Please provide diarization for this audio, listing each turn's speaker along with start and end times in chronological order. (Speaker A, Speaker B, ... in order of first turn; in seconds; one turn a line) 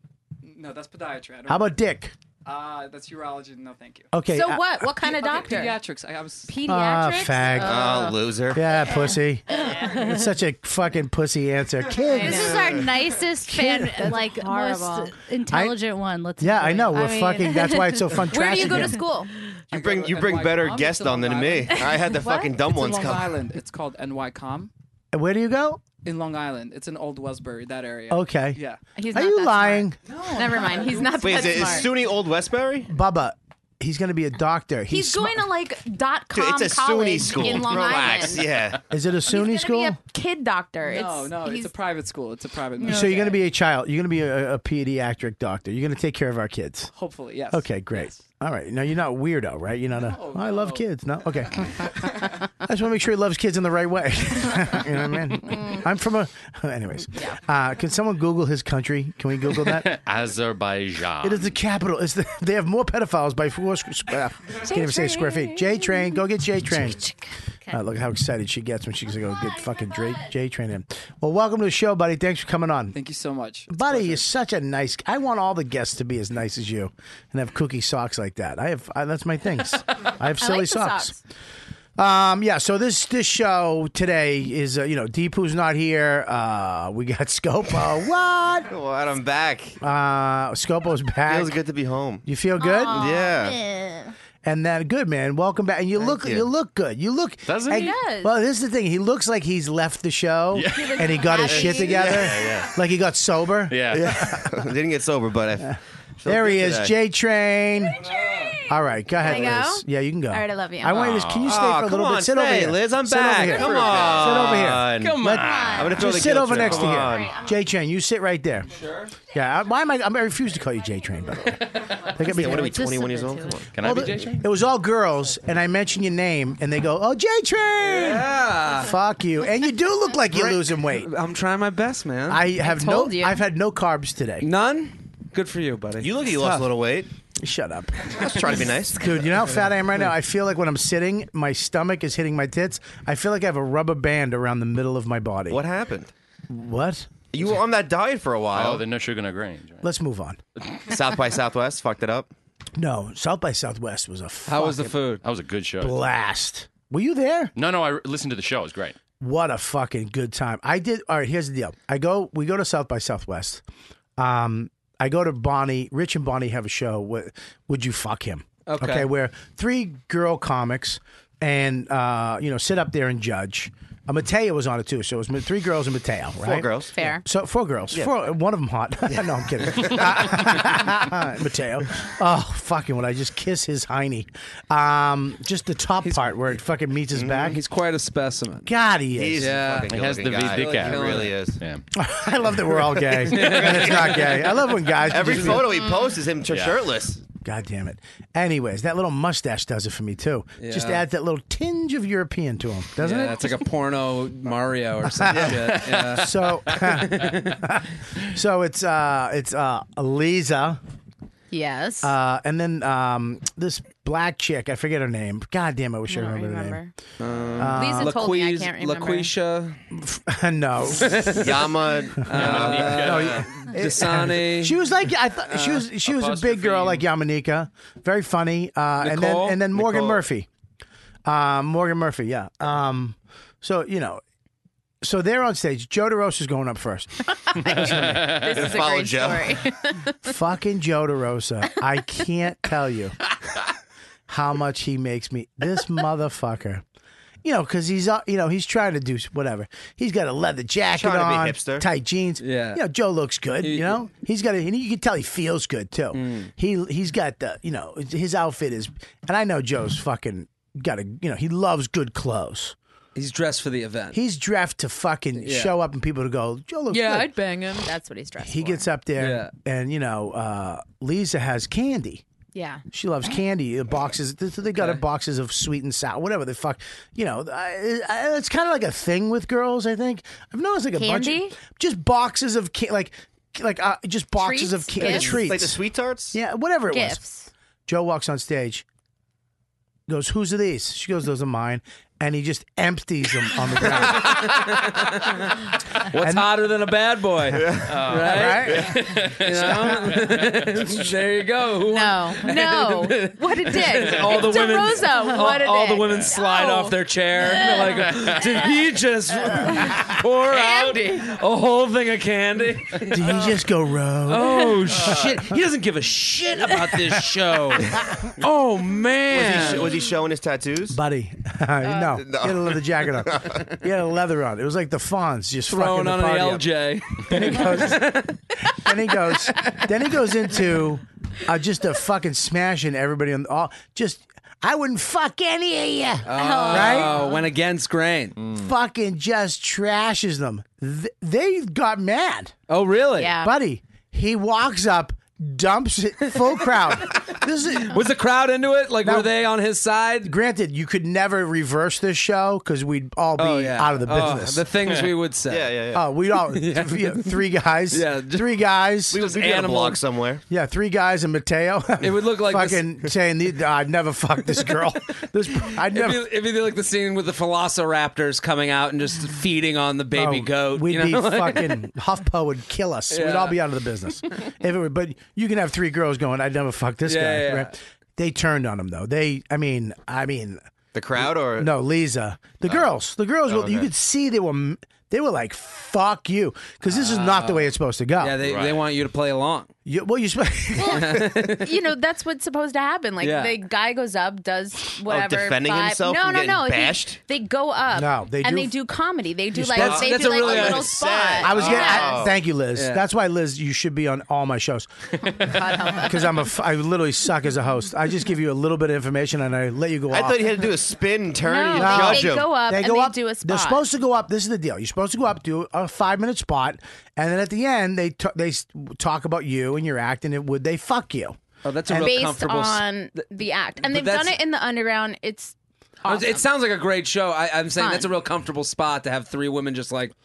Speaker A: 0.4-1.8
Speaker B: 1.5-2.1
Speaker A: 2.4-4.1
Speaker B: 4.1-4.9
Speaker C: 4.3-5.8
Speaker A: 5.0-6.6
Speaker C: 6.5-8.1
Speaker D: 6.6-8.2
Speaker B: 6.7-12.9
Speaker E: 7.5-8.7
Speaker D: 9.5-10.2
Speaker A: 9.6-10.0
Speaker A: 11.9-12.1
Speaker D: 12.0-19.6
Speaker C: 12.1-12.5
Speaker B: 13.4-14.2
Speaker C: 14.2-15.1
Speaker B: 15.4-15.8
Speaker B: 16.4-19.0
Speaker C: 18.3-19.3
Speaker A: 19.7-24.7
Speaker E: 19.7-23.4
Speaker C: 22.1-22.5
Speaker B: 25.1-25.8
Speaker A: 26.0-28.8
Speaker B: 28.1-28.6
Speaker C: 28.9-31.9
Speaker B: 29.1-30.0
Speaker A: 30.0-31.9
Speaker E: 31.1-32.9
Speaker B: 32.9-35.5
Speaker C: 34.9-38.5
Speaker E: 36.3-38.8
Speaker B: 38.9-40.0
Speaker C: 39.3-41.7
Speaker A: 40.8-43.4
Speaker B: 42.8-46.9
Speaker A: 46.9-48.2
Speaker B: 47.5-52.1
Speaker A: 50.0-50.8
Speaker B: 52.6-59.9
Speaker F: 59.6-61.5
Speaker B: 61.2-67.0
Speaker C: 64.6-66.2
Speaker B: 67.7-73.0
Speaker A: 72.9-74.3
Speaker B: 73.7-81.2
Speaker C: 80.4-81.2
Speaker B: 82.0-88.7
Speaker E: 88.7-89.8
Speaker B: 89.8-91.6
Speaker E: 91.3-92.2
Speaker B: 92.2-93.1
Speaker C: 92.6-94.1
Speaker E: 92.9-93.6
Speaker B: 94.4-104.4
Speaker E: 96.0-96.5
Speaker F: 97.5-97.9
Speaker C: 97.7-98.3
Speaker F: 100.5-102.7
Speaker C: 100.7-102.3
Speaker F: 103.7-104.4
Speaker E: 103.9-106.9
Speaker B: 105.6-108.0
Speaker B: 108.7-118.7
Speaker C: 109.2-111.2
Speaker F: 110.9-111.5
Speaker E: 111.4-117.4
Speaker F: 113.7-116.2
Speaker C: 116.9-117.5
Speaker G: 118.8-119.2
Speaker B: 119.3-123.0
Speaker D: 122.2-123.6
Speaker E: 122.2-123.7
Speaker F: 123.7-124.4
Speaker B: 123.8-131.1
Speaker G: 127.8-128.9
Speaker G: 130.3-132.5
Speaker B: 132.3-134.4
Speaker C: 132.6-133.4
Speaker G: 134.4-136.6
Speaker E: 136.0-137.1
Speaker B: 137.4-145.6
Speaker E: 138.1-139.1
Speaker E: 145.5-146.1
Speaker B: 146.5-147.1
Speaker E: 147.3-148.8
Speaker F: 148.5-149.8
Speaker B: 149.8-150.4
Speaker E: 150.9-152.3
Speaker B: 152.8-154.9
Speaker G: 154.4-155.2
Speaker F: 155.2-156.0
Speaker B: 155.8-157.5
Speaker F: 157.6-158.9
Speaker B: 159.2-163.6
Speaker B: 164.2-187.6
Speaker G: 168.6-169.1
Speaker E: 176.4-176.9
Speaker C: 176.9-177.2
Speaker G: 186.0-186.3
Speaker G: 187.3-188.7
Speaker B: 188.6-189.6
Speaker E: 189.1-191.6
Speaker G: 189.4-191.4
Speaker F: 189.8-191.8
Speaker B: 191.9-195.7
Speaker G: 192.8-194.3
Speaker E: 195.1-197.2
Speaker G: 195.1-195.7
Speaker C: 195.7-196.0
Speaker F: 196.5-196.8
Speaker B: 197.4-203.6
Speaker G: 200.6-201.0
Speaker G: 203.0-207.6
Speaker B: 205.2-210.8
Speaker E: 205.3-205.6
Speaker C: 211.5-212.1
Speaker B: 212.0-216.8
Speaker C: 216.1-216.9
Speaker G: 217.2-219.8
Speaker E: 217.4-217.7
Speaker B: 217.6-218.2
Speaker C: 217.7-219.3
Speaker B: 219.9-221.2
Speaker G: 220.9-221.7
Speaker E: 221.3-222.7
Speaker G: 222.2-224.8
Speaker F: 222.3-223.5
Speaker B: 222.4-230.5
Speaker G: 225.4-225.9
Speaker F: 226.0-227.1
Speaker G: 229.0-230.2
Speaker B: 231.2-234.2
Speaker B: 235.0-238.3
Speaker C: 237.4-240.1
Speaker F: 237.9-238.4
Speaker E: 238.3-239.6
Speaker B: 240.2-243.2
Speaker B: 244.3-246.8
Speaker B: 247.4-262.8
Speaker E: 250.9-251.8
Speaker G: 252.4-252.8
Speaker G: 253.6-254.0
Speaker G: 256.1-256.5
Speaker G: 263.1-264.2
Speaker B: 264.1-267.3
Speaker G: 265.4-265.7
Speaker C: 266.9-268.9
Speaker B: 268.4-272.2
Speaker G: 269.2-269.5
Speaker C: 272.5-272.8
Speaker B: 272.9-287.2
Speaker G: 274.7-275.0
Speaker C: 280.9-281.5
Speaker C: 284.4-285.4
Speaker E: 285.0-286.3
Speaker C: 286.9-287.5
Speaker B: 287.9-288.8
Speaker B: 290.1-294.5
Speaker G: 293.8-295.4
Speaker G: 296.1-313.6
Speaker B: 296.1-296.5
Speaker E: 297.5-297.9
Speaker F: 297.9-301.0
Speaker B: 298.2-298.9
Speaker E: 298.6-298.9
Speaker C: 301.9-307.9
Speaker F: 306.1-306.3
Speaker F: 308.1-308.4
Speaker C: 310.5-311.1
Speaker B: 313.1-315.3
Speaker G: 314.2-320.0
Speaker E: 319.3-321.0
Speaker B: 320.9-326.7
Speaker E: 322.0-323.7
Speaker G: 325.7-328.4
Speaker B: 327.2-328.1
Speaker B: 328.7-337.2
Speaker G: 336.2-338.5
Speaker D: 336.4-337.4
Speaker B: 338.5-342.6
Speaker G: 342.7-343.4
Speaker C: 343.1-343.5
Speaker B: 343.3-348.0
Speaker G: 347.8-350.3
Speaker B: 349.0-349.3
Speaker B: 350.2-354.7
Speaker G: 353.4-355.8
Speaker E: 355.5-356.0
Speaker B: 355.9-359.2
Speaker G: 356.3-360.0
Speaker E: 359.1-360.4
Speaker B: 360.5-366.3
Speaker G: 362.0-363.0
Speaker G: 364.6-364.9
Speaker G: 365.6-371.8
Speaker B: 370.1-380.6
Speaker G: 373.1-373.6
Speaker G: 377.0-377.7
Speaker E: 380.9-381.7
Speaker B: 381.4-388.4
Speaker E: 383.5-383.9
Speaker G: 386.9-389.7
Speaker F: 388.4-388.8
Speaker B: 389.9-391.3
Speaker G: 390.9-391.7
Speaker C: 391.5-402.2
Speaker G: 393.2-393.6
Speaker E: 395.1-397.2
Speaker B: 397.9-398.8
Speaker B: 399.5-400.0
Speaker G: 399.7-401.0
Speaker E: 399.9-402.4
Speaker B: 401.4-404.9
Speaker G: 402.7-403.1
Speaker C: 405.2-406.4
Speaker B: 405.9-410.6
Speaker E: 410.1-412.5
Speaker C: 411.4-413.8
Speaker B: 411.8-421.4
Speaker G: 421.6-423.2
Speaker C: 421.9-426.4
Speaker G: 423.8-424.4
Speaker G: 426.0-430.1
Speaker C: 427.8-428.1